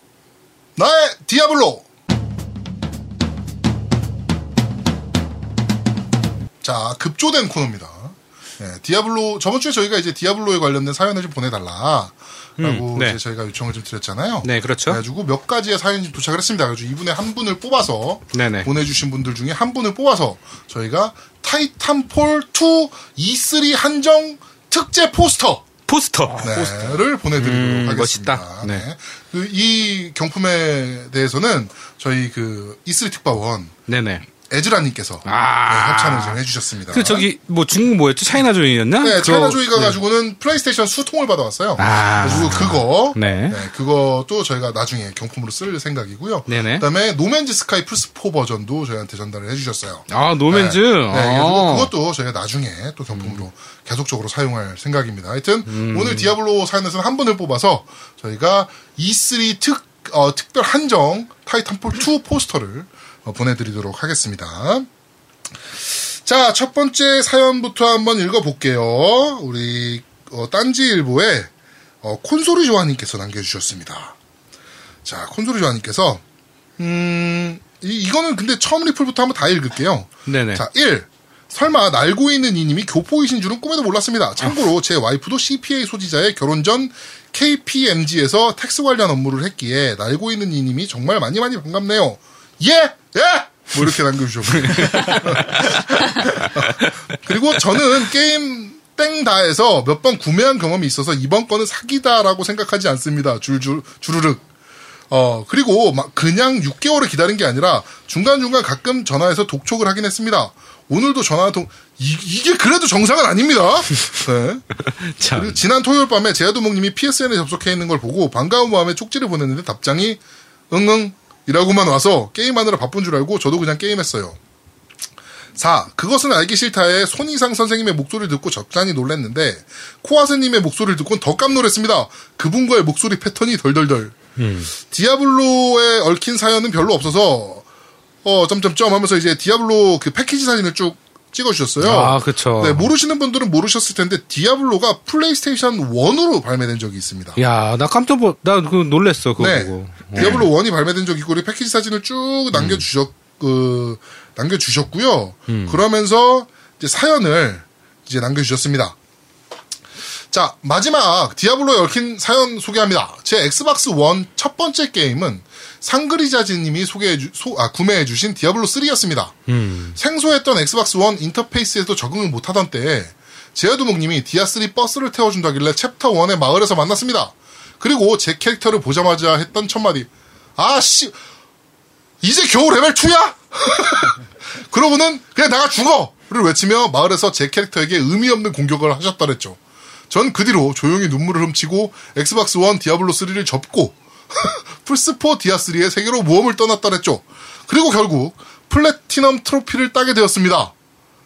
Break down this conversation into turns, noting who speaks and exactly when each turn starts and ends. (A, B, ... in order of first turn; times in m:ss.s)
0:00.8-0:01.8 A
0:06.6-0:25.6 A
0:12.6-0:13.2 B
0:14.4-0:15.0 B
0:18.3-0:18.7 B
0:25.9-0:28.8 B
0:26.4-0:33.7 A
0:33.9-0:34.3 B
0:34.5-0:37.3 A
0:35.2-0:36.4 B
0:36.9-0:40.0 B
0:39.0-1:04.9 A
0:41.8-0:43.6 B
0:46.5-0:46.8 B
0:50.1-0:51.9 B
0:53.1-0:53.4 B
0:55.7-0:56.3 B
1:05.9-1:11.5 A
1:12.0-1:14.1 A
1:15.0-1:16.2 A
1:16.8-1:44.4 A
1:20.3-1:20.6 B
1:34.5-1:36.9 B
1:45.1-1:54.7 A
1:55.0-1:55.6 B
1:55.2-2:00.2 A
2:00.7-2:04.4 A
2:05.6-2:14.2 A
2:14.4-2:14.7 B
2:14.8-2:17.6 A
2:18.2-2:27.4 A
2:21.8-2:22.9 B
2:27.4-2:30.5 B
2:29.4-2:38.9 A
2:32.5-2:32.8 B
2:35.5-2:35.8 B
2:40.3-2:49.3 A
2:49.5-2:50.0 B
2:50.0-3:01.1 A
3:02.2-3:09.6 A
3:10.1-3:20.7 A